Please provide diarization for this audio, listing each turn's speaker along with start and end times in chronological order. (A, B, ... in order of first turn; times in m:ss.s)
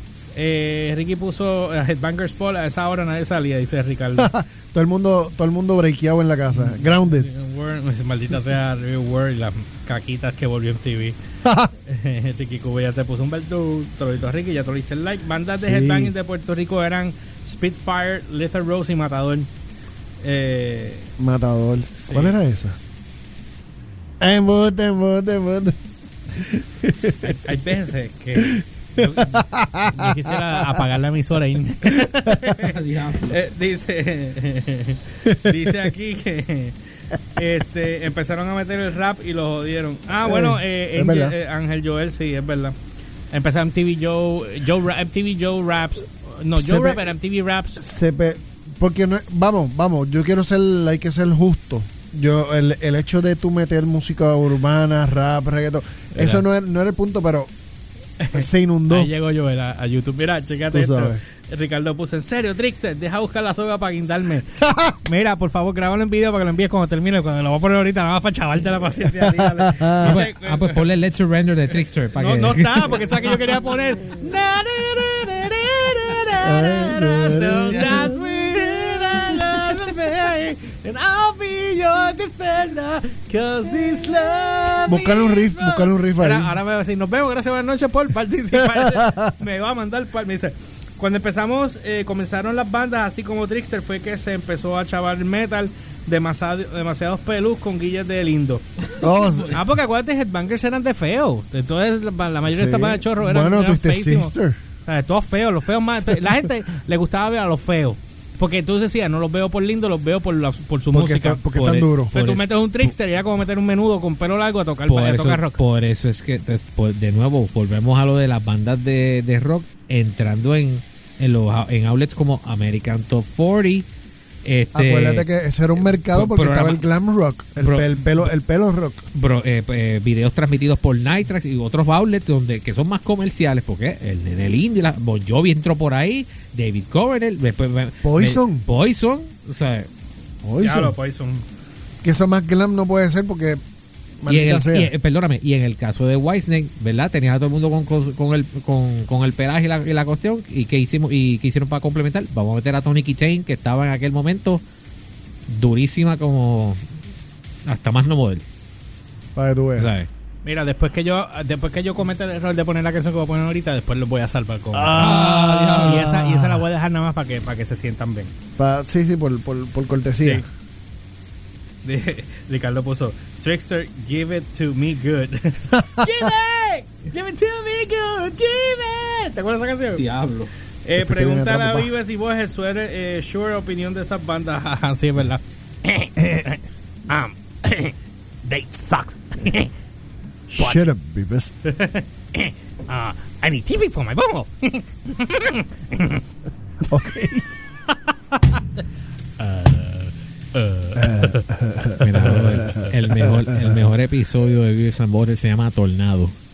0:00.4-0:04.3 A
0:04.2-0:07.3 B
0:06.5-0:11.2 A
0:11.4-0:11.7 B
0:11.9-0:19.5 A
0:15.6-0:16.1 B
0:20.2-0:21.1 A
0:21.2-0:22.8 B
0:22.0-0:22.4 A
0:24.2-0:25.8 B
0:26.3-0:27.4 B
0:27.2-0:36.8 A
0:28.4-0:30.8 B
0:31.9-0:32.4 B
0:32.6-0:33.4 C
0:35.2-0:35.9 B
0:37.3-0:42.8 A
0:40.2-0:41.4 B
0:43.3-0:47.8 A
0:46.6-0:47.0 B
0:47.8-0:57.5 B
0:56.1-0:56.4 A
0:58.2-1:10.9 A
0:58.3-0:59.1 B
1:00.7-1:01.2 B
1:04.6-1:05.0 B
1:09.2-1:10.2 B
1:10.0-1:13.2 C
1:12.1-1:38.9 A
1:16.4-1:18.2 B
1:24.9-1:26.5 B
1:28.6-1:29.3 B
1:39.0-1:39.6 B
1:39.4-1:44.3 A
1:42.5-1:44.6 B
1:44.9-1:55.6 A
1:50.9-1:52.3 B
1:54.9-2:03.9 C
2:04.4-2:05.3 C
2:04.7-2:09.0 B
2:05.8-2:06.8 C
2:07.6-2:08.3 C
2:09.1-2:19.9 C
2:18.0-2:18.6 B
2:20.4-2:21.0 B
2:20.6-2:21.4 A
2:22.0-2:23.6 B
2:24.2-2:24.9 B
2:24.3-2:34.6 C
2:35.5-2:36.8 C
2:37.6-2:38.4 C
2:39.4-2:40.0 B
2:39.8-2:40.1 C
2:40.4-2:48.3 A
2:44.7-2:46.6 B
2:45.0-2:46.0 C
2:48.6-2:50.4 B
2:50.2-2:50.4 A
2:51.8-3:00.0 A
2:55.7-2:56.1 B
3:00.0-3:00.5 C
3:00.8-3:09.7 A
3:01.0-3:01.9 B
3:10.5-3:11.5 B
3:10.6-3:10.9 A
3:11.6-3:16.2 A
3:16.8-3:17.5 B
3:17.9-3:18.6 A
3:19.4-3:21.4 A
3:21.0-3:23.8 B
3:22.0-3:26.4 C
3:22.1-3:22.9 A